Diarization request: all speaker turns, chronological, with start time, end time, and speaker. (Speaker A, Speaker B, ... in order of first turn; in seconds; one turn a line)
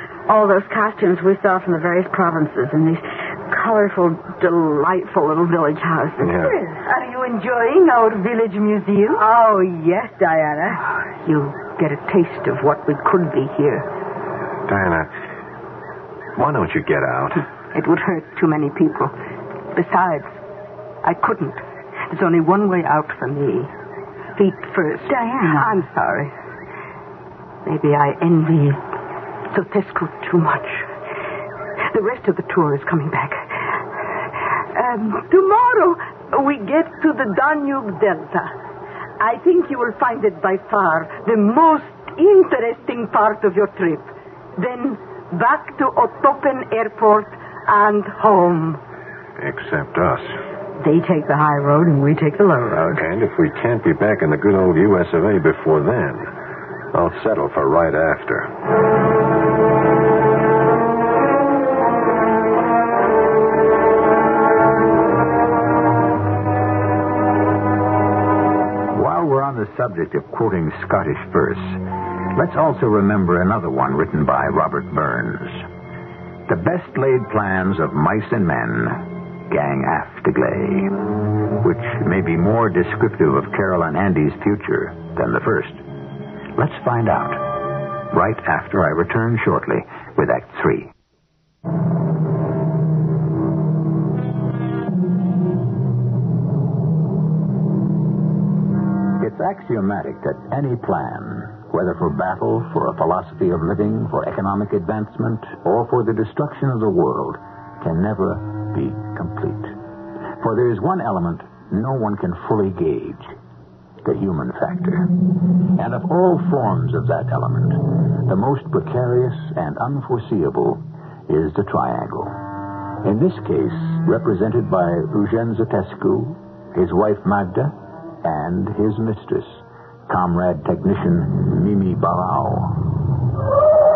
Speaker A: 0.3-6.6
Speaker B: 6.2-6.6
Speaker C: 6.7-9.2
Speaker A: 9.1-10.8
Speaker C: 11.2-13.9
Speaker B: 14.7-15.1
Speaker B: 16.3-17.4
Speaker C: 17.7-19.1
Speaker C: 19.7-20.4
Speaker C: 21.0-23.7
Speaker C: 24.4-26.3
Speaker A: 25.1-25.7
Speaker C: 27.6-28.8
Speaker C: 29.5-30.9
Speaker C: 31.9-33.8
Speaker C: 34.7-38.5
Speaker C: 39.2-48.8
Speaker B: 49.4-50.4
Speaker A: 50.8-53.0
Speaker B: 52.7-56.3
Speaker B: 56.9-58.5
Speaker D: 68.9-75.7
Speaker D: 76.5-81.0
Speaker D: 81.6-85.8
Speaker D: 86.5-90.9
Speaker D: 99.2-109.8
Speaker D: 110.4-113.3
Speaker D: 114.0-115.1
Speaker D: 115.7-122.4
Speaker D: 123.0-132.8